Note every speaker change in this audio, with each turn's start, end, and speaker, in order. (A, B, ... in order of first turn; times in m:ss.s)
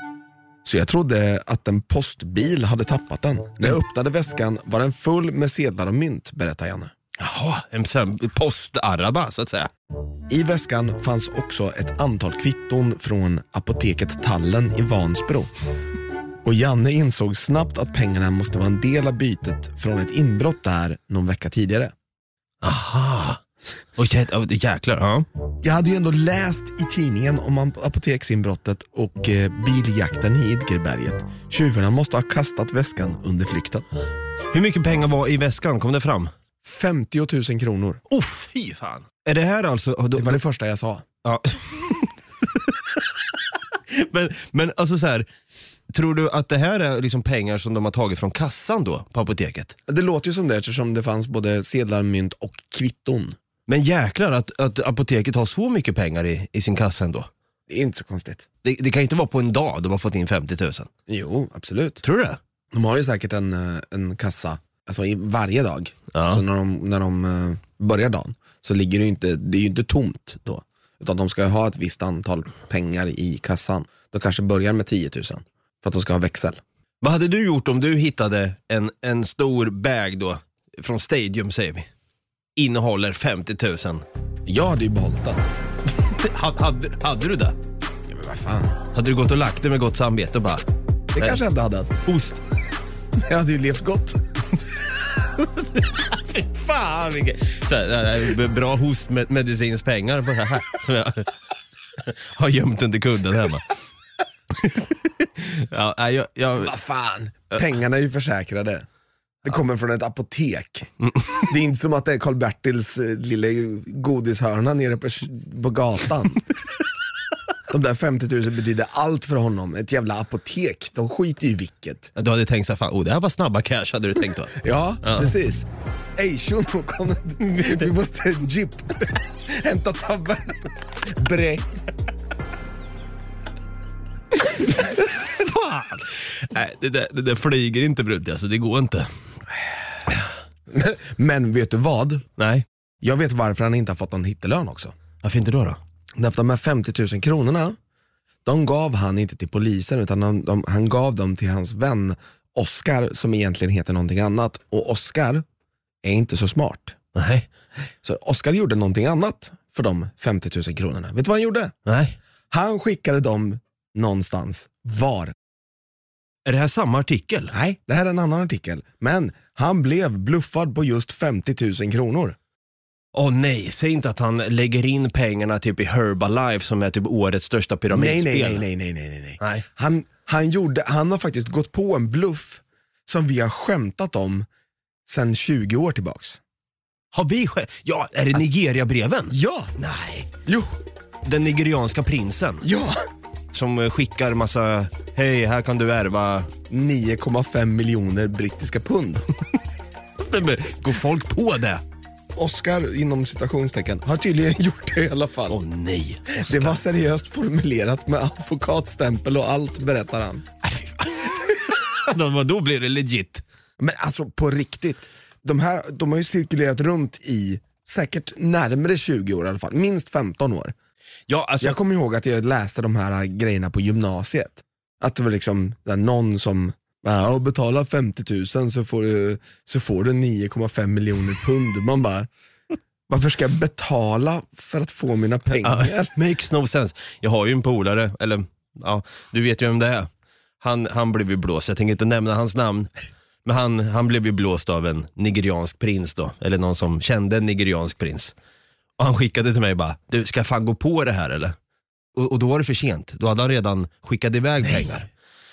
0:00.6-0:06.9 A
0:07.2-0:09.7 B
0:10.3-0:15.5 A
0:16.4-0:21.9 A
0:22.6-0:23.4 B
0:24.0-0:25.3 B
0:25.6-0:33.9 A
0:34.5-0:36.3 B
0:36.6-0:38.0 A
0:38.1-0:40.4 B
0:40.1-0:41.0 A
0:41.2-0:42.7 B
0:43.9-0:45.3 B
0:45.9-0:49.7 B
0:49.9-0:53.4 A
0:53.7-0:57.3 B
0:57.7-0:58.4 A
0:58.6-1:00.9 B
1:01.1-1:02.0 A
1:02.0-1:02.4 B
1:02.7-1:16.6 A
1:06.1-1:06.4 B
1:17.0-1:21.9 B
1:22.6-1:24.0 B
1:24.4-1:25.4 A
1:26.0-1:27.6 B
1:28.1-1:28.8 A
1:28.9-1:30.6 B
1:31.1-1:32.0 A
1:32.0-1:32.4 B
1:33.2-1:34.2 A
1:35.4-1:41.3 B
1:42.0-1:43.7 B
1:44.5-1:46.7 B
1:46.6-1:48.8 A
1:49.4-1:56.4 A
1:51.0-1:51.4 B
1:57.7-2:02.1 A
2:02.2-2:05.3 B
2:04.6-2:11.7 A
2:07.5-2:07.8 B
2:15.3-2:19.1 B
2:20.7-2:22.2 A
2:22.4-2:22.6 B
2:23.0-2:24.9 A
2:25.2-2:25.8 B
2:26.2-2:27.8 A
2:28.4-2:35.4 A
2:36.0-2:37.0 A
2:37.1-2:37.5 B
2:38.0-2:41.7 A
2:41.8-2:42.2 B
2:42.5-2:45.3 A
2:46.4-2:47.5 B
2:47.5-2:52.4 A
2:53.1-2:58.6 B
2:57.9-3:04.5 A
2:59.4-2:59.6 B
3:05.0-3:06.4 A
3:07.1-3:10.3 B
3:09.3-3:09.7 A
3:10.4-3:10.7 A
3:11.2-3:12.6 B
3:12.6-3:13.0 A
3:13.5-3:16.5 B
3:16.7-3:19.3 A
3:20.2-3:21.8 B
3:22.3-3:25.6 A
3:25.5-3:26.8 B
3:26.3-3:30.4 A
3:30.6-3:33.4 B
3:33.8-3:40.7 A
3:41.3-3:41.8 B
3:41.6-3:52.3 A
3:53.1-3:56.1 A
3:55.6-4:00.1 B
4:00.6-4:02.9 B
4:03.4-4:08.3 B
4:09.0-4:11.5 B
4:12.1-4:15.1 B